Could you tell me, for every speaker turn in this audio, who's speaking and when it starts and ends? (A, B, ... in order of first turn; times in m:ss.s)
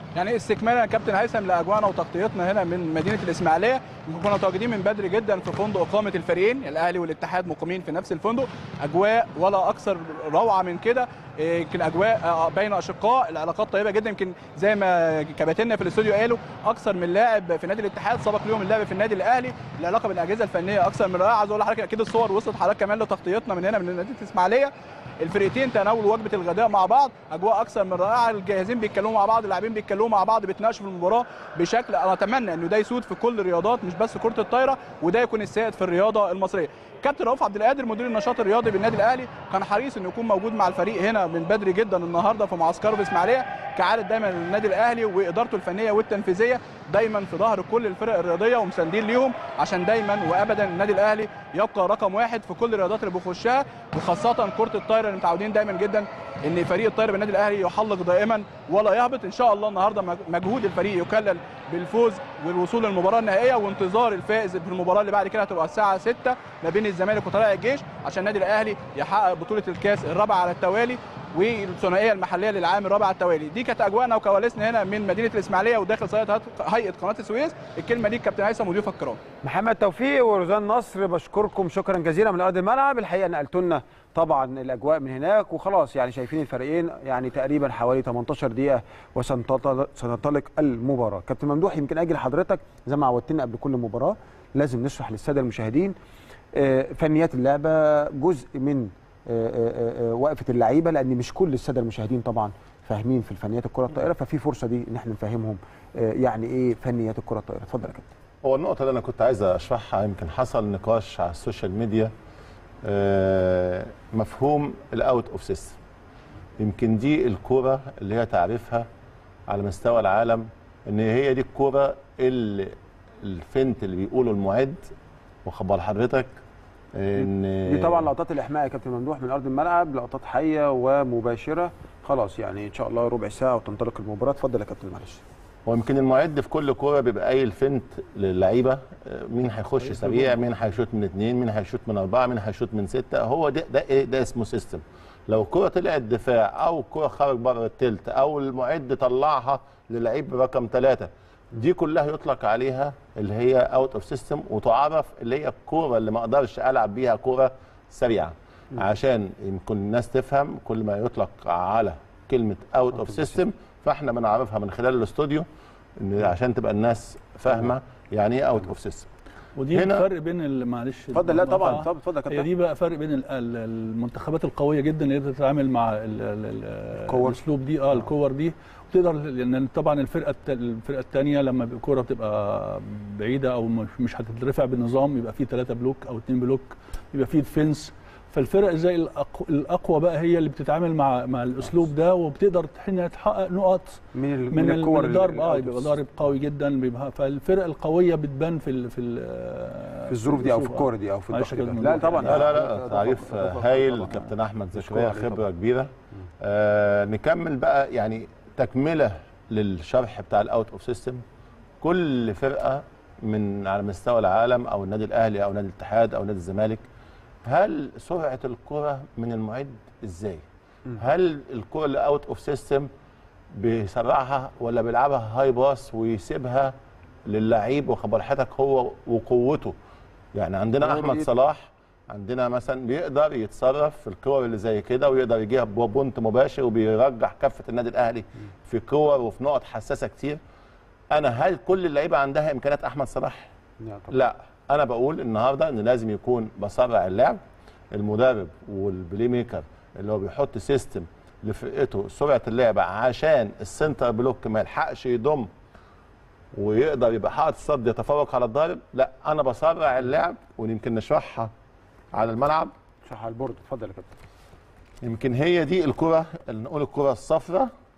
0:00.2-1:19.2 A
1:19.4-1:36.0 B
1:36.6-1:48.1 B
1:48.4-1:52.1 C
1:52.8-1:55.8 C
1:56.6-1:58.9 C
1:59.5-2:04.9 C
2:05.4-2:06.3 C
2:07.0-2:08.1 C
2:07.2-2:15.2 B
2:15.7-2:45.5 C
2:46.0-2:49.1 C
2:49.6-3:14.0 D
2:49.7-2:50.1 C
2:51.1-2:52.5 B
2:57.0-2:57.4 B
3:14.1-3:15.9 B
3:14.5-3:22.5 D
3:20.1-3:25.4 B
3:22.2-3:25.9 C
3:26.4-3:31.2 C
3:31.8-3:36.8 C
3:37.5-3:40.4 C
3:41.0-3:42.9 C
3:43.5-3:46.7 C
3:47.3-3:49.8 C
3:50.4-4:00.4 C
3:50.8-3:51.3 B
4:01.1-4:03.5 C
4:03.8-4:04.2 B
4:04.1-4:07.4 C
4:07.9-4:15.5 C
4:16.5-4:21.5 C
4:22.1-4:22.7 C
4:23.1-4:24.1 B
4:25.0-4:27.7 C